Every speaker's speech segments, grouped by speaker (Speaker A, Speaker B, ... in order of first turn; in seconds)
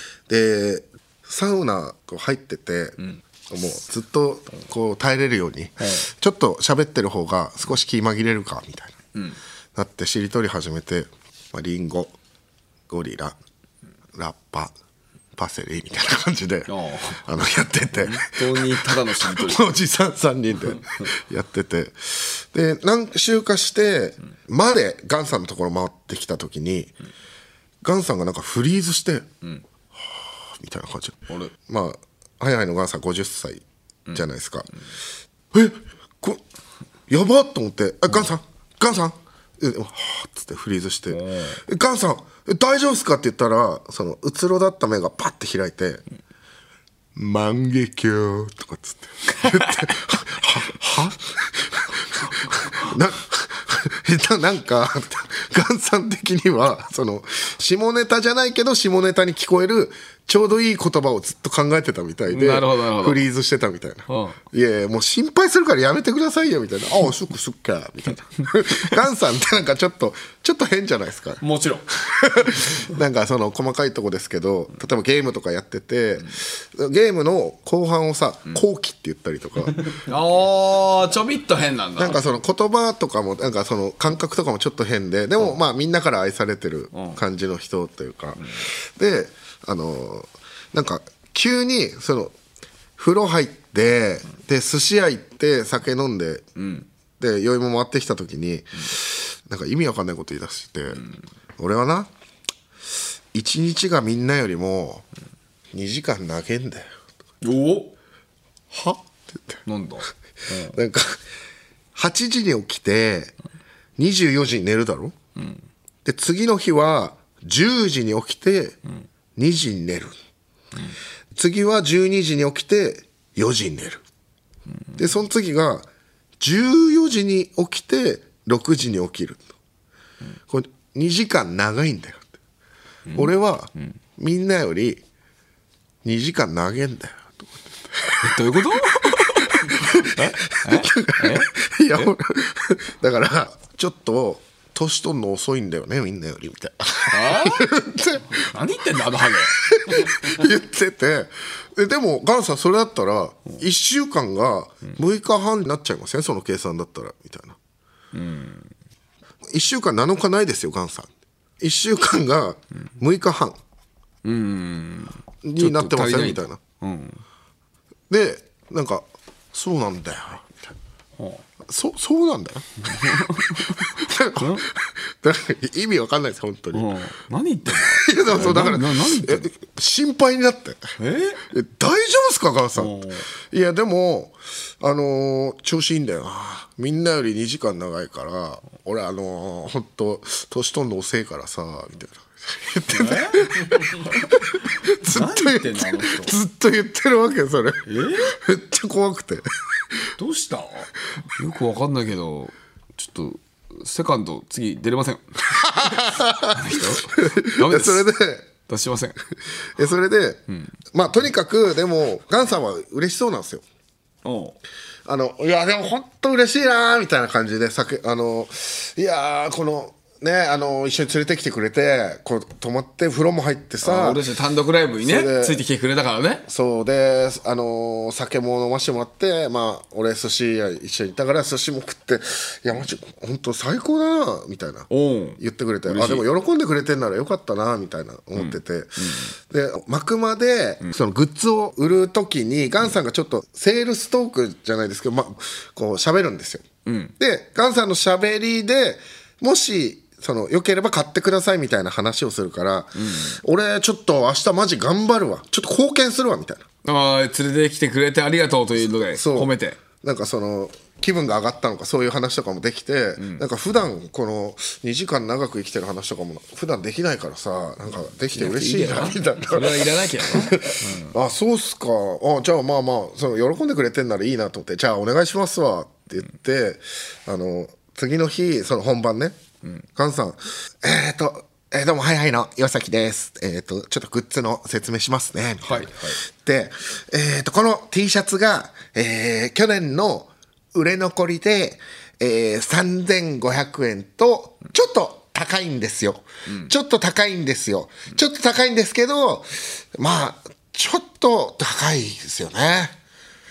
Speaker A: 0.3-3.0, 3.5-9.0, 9.7-12.1, 12.9-13.3, 14.1-14.7, 15.3-26.9, 27.8-29.3, 30.1-34.7, 35.5-36.4, 37.1-46.0, 47.1-80.0, 82.0-92.3, 93.0-96.4, 97.2-101.0, 101.6-102.1, 103.3-105.0, 105.7-106.9, 108.7-109.6, 110.7-111.2, 111.9-113.3, 114.0-115.1, 116.0-118.8, 119.3-120.2, 121.3-124.0, 125.0-125.9, 126.4-129.5, 130.5-132.3, 133.1-135.0, 136.0-138.4, 139.6-148.5, 149.6-157.6, 159.5-161.1, 161.6-163.6, 165.4-166.6, 168.1-170.7, 171.7-176.9, 177.7-180.8, 181.5-199.5, 205.6-208.5, 209.8-213.6, 215.0-224.2, 225.0-225.6, 226.4-234.9, 235.4-246.6, 247.2-256.6, 259.1-279.4, 279.9-302.9
Speaker B: 5.8-6.1, 16.7-17.3, 18.0-19.6, 41.1-41.6, 49.4-49.9, 62.3-63.2, 64.1-64.4, 71.4-71.8, 80.0-82.3, 86.9-87.2, 96.5-96.9, 107.4-107.9, 109.6-110.7, 115.3-115.6, 133.1-133.9, 138.2-142.1, 147.1-147.7, 148.3-150.3, 158.1-158.7, 164.2-167.2, 171.2-171.4, 172.8-174.7, 176.7-179.5, 181.0-181.4, 182.7-183.3, 192.9-194.1, 195.0-196.3, 197.8-198.4, 200.2-208.1, 208.7-209.2, 214.2-214.6, 223.8-226.4, 234.9-236.2, 238.3-239.3, 246.8-247.1, 252.9-253.4, 256.8-259.8, 263.2-263.4, 268.3-271.1, 285.6-286.2